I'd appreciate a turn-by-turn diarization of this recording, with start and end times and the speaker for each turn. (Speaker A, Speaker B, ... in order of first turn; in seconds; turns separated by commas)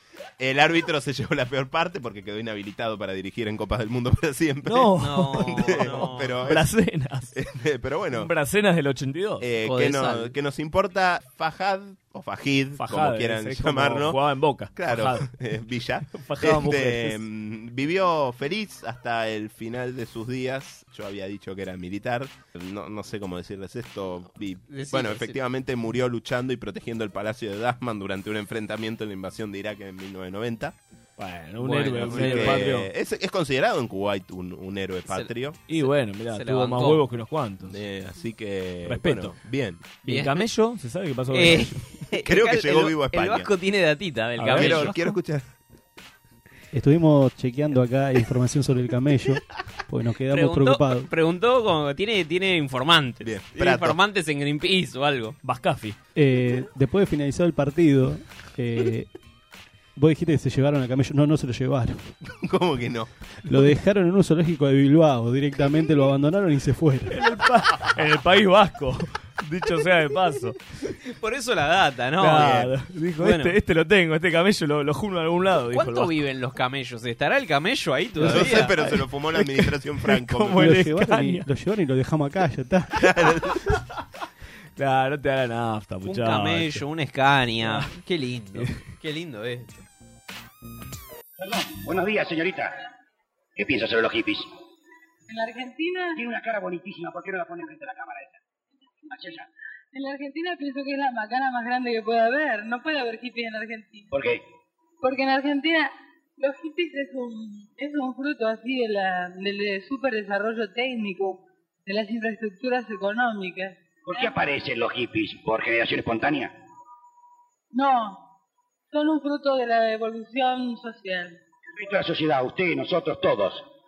Speaker A: 0.4-6.7, Speaker B: 4.7-7.4, Speaker C: 5.0-6.5, Speaker A: 7.3-8.3, Speaker B: 8.1-9.5, Speaker A: 9.4-14.2, Speaker C: 9.6-10.4, Speaker B: 12.8-15.3, Speaker A: 14.8-30.8, Speaker B: 16.1-17.2, Speaker C: 24.7-25.4, Speaker B: 31.2-32.9, Speaker C: 31.6-32.6, Speaker A: 32.0-35.6, Speaker C: 35.1-37.0, Speaker B: 35.7-37.8, Speaker A: 37.7-39.8, Speaker B: 38.9-39.4, Speaker B: 39.9-41.8, Speaker C: 40.0-40.5, Speaker C: 41.3-45.0, Speaker A: 42.2-43.5, Speaker B: 44.4-45.2, Speaker A: 44.6-45.5, Speaker D: 46.7-51.1, Speaker C: 50.3-55.4, Speaker A: 53.2-54.0, Speaker B: 55.4-56.0, Speaker D: 56.2-59.1, Speaker D: 60.0-62.1, Speaker A: 62.3-63.1, Speaker D: 63.5-67.2, Speaker B: 67.1-70.6, Speaker C: 71.0-72.6, Speaker B: 72.2-76.2, Speaker A: 72.3-72.7, Speaker C: 73.2-73.6, Speaker C: 75.7-78.8, Speaker A: 78.2-80.7, Speaker B: 78.2-81.5, Speaker D: 80.6-83.1, Speaker A: 83.0-83.6, Speaker B: 84.8-86.8, Speaker C: 86.0-89.8, Speaker B: 87.6-87.9, Speaker E: 91.4-92.8, Speaker E: 93.6-94.5, Speaker F: 95.3-96.2, Speaker E: 96.2-98.4, Speaker E: 99.1-99.5, Speaker F: 99.9-104.1, Speaker E: 104.1-104.4, Speaker F: 105.0-114.4, Speaker E: 114.1-116.5, Speaker F: 117.7-118.2, Speaker F: 118.9-121.4, Speaker E: 121.8-123.7